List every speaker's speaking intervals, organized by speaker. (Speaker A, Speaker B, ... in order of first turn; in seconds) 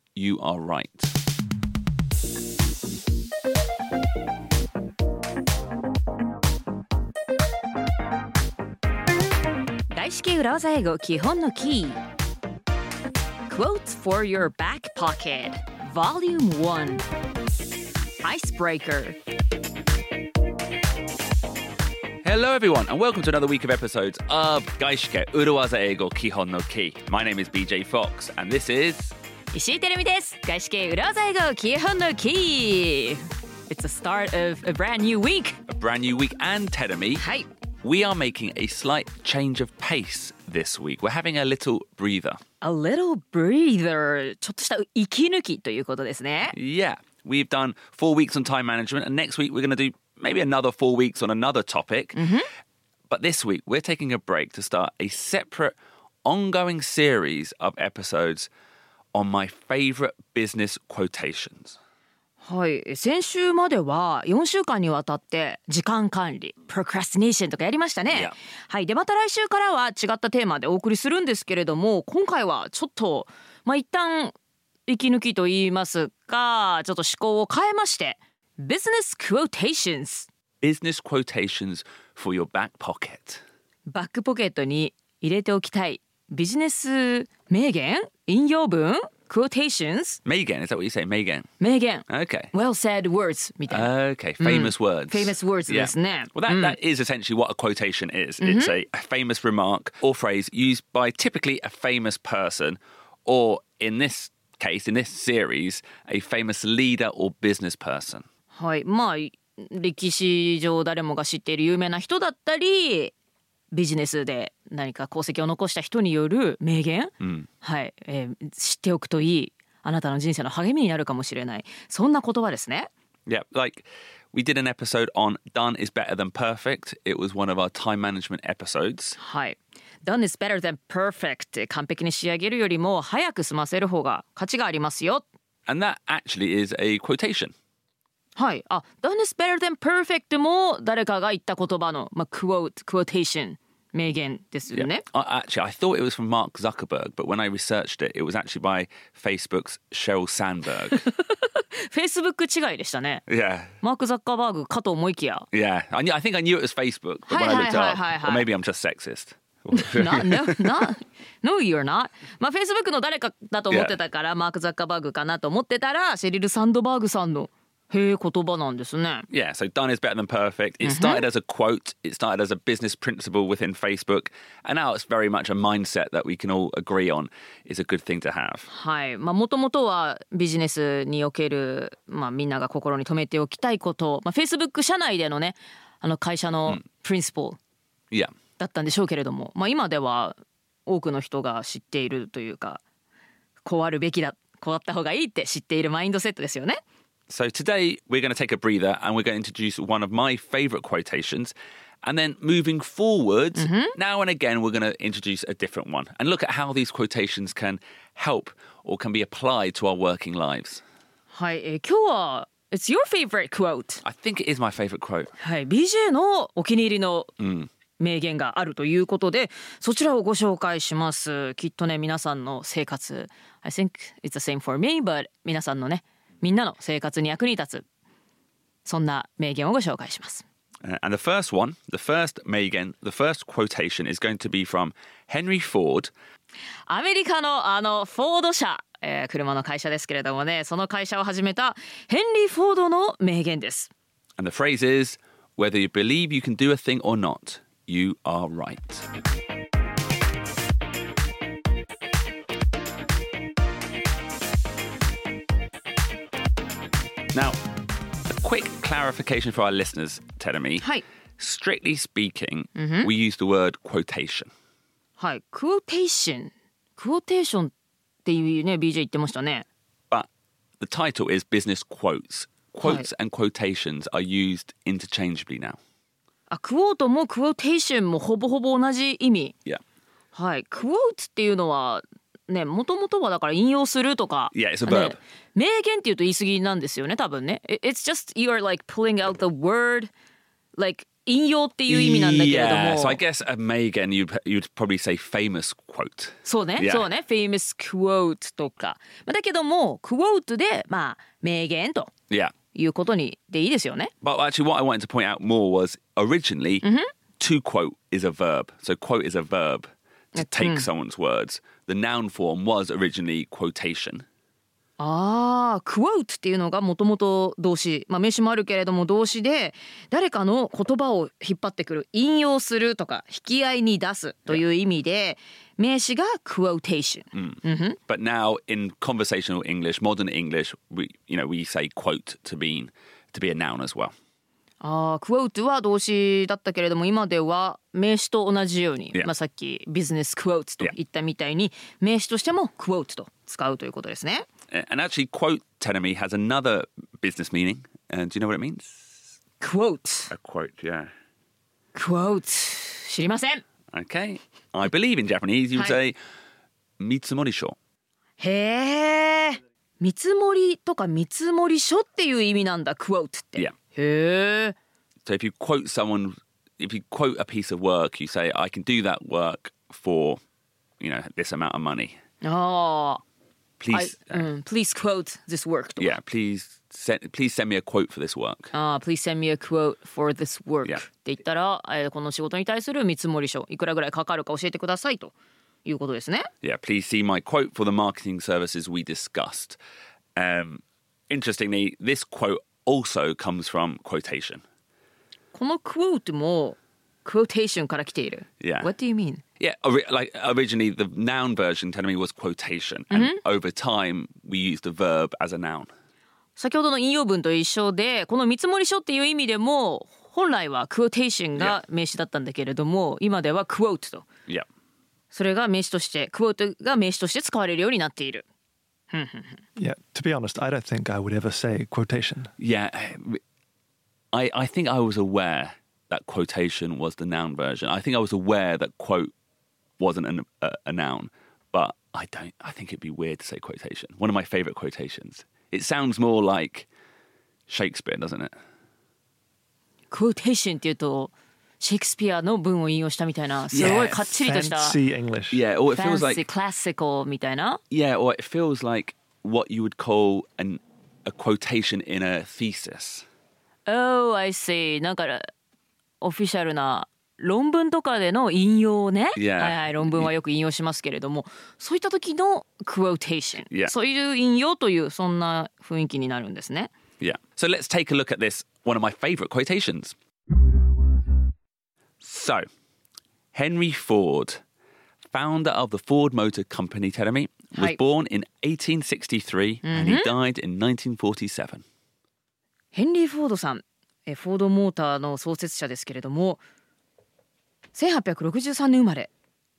Speaker A: 0.2-1.1, 22.2-29.1, 35.7-37.2, 37.8-42.4, 46.5-52.2, 53.1-58.5, 59.1-61.8, 80.6-83.4, 90.2-91.5, 92.1-92.5, 93.7-108.2, 117.2-117.5, 123.3-129.2, 135.7-137.5, 144.7-151.1, 153.3-153.7, 155.5-160.6, 163.7-164.0, 169.3-178.7, 197.3-210.8, 214.0-215.3, 217.4-217.7, 230.8-236.1, 244.4-249.1, 257.3-257.6, 258.3-260.9, 261.4-264.5, 270.8-275.8, 284.5-285.2, 291.9-297.1, 304.2-306.8, 307.4-314.2, 327.3-334.1, 344.7-349.2, 350.3-351.1, 353.9-356.2, 357.0-357.8, 365.2-370.4, 371.0-372.2, 373.8-374.5, 376.0-378.7, 386.6-389.8, 390.4-394.6, 398.6-398.9, 399.6-405.9, 422.6-423.4, 424.3-429.3, 430.0-436.9, 437.7-438.5, 443.7-444.4, 445.5-446.4, 447.9-453.2, 459.4-460.3, 467.2-470.1, 472.2-472.7, 473.5-474.6, 475.3-481.8
Speaker B: 9.9-12.0, 13.5-17.1, 18.2-19.2, 29.5-35.6, 37.2-37.5, 42.6-46.5, 52.1-52.5, 62.4-74.3, 74.9-80.3, 83.9-90.2, 91.6-96.8, 98.4-98.8, 108.5-113.1, 113.7-122.9, 129.2-135.2, 138.4-145.1, 150.9-153.2, 153.8-155.5, 157.3-158.4, 159.8-169.3, 170.8-171.3, 178.7-187.6, 188.6-192.8, 193.6-196.8, 203.6-204.0, 211.3-214.0, 215.4-217.3, 218.0-227.8, 228.8-230.4, 236.9-243.9, 262.8-263.1, 265.2-267.7, 268.2-269.6, 272.8-273.1, 276.5-279.6, 280.3-290.1, 290.8-293.2, 296.4-302.1, 302.7-304.1, 306.8-307.1, 310.4-310.9, 315.0-328.0, 334.8-344.5, 349.6-350.3, 351.9-353.6, 358.4-364.8, 372.4-373.2, 373.9-376.2, 378.7-385.3, 385.9-386.5, 395.5-399.4, 403.1-403.4, 406.6-414.3, 415.3-418.4, 419.1-419.6, 440.1-445.0, 445.9-447.8, 453.9-455.5, 456.2-466.9, 479.9-480.3, 482.9-486.6, 487.9-489.3
Speaker C: 419.8-422.5, 443.8-445.6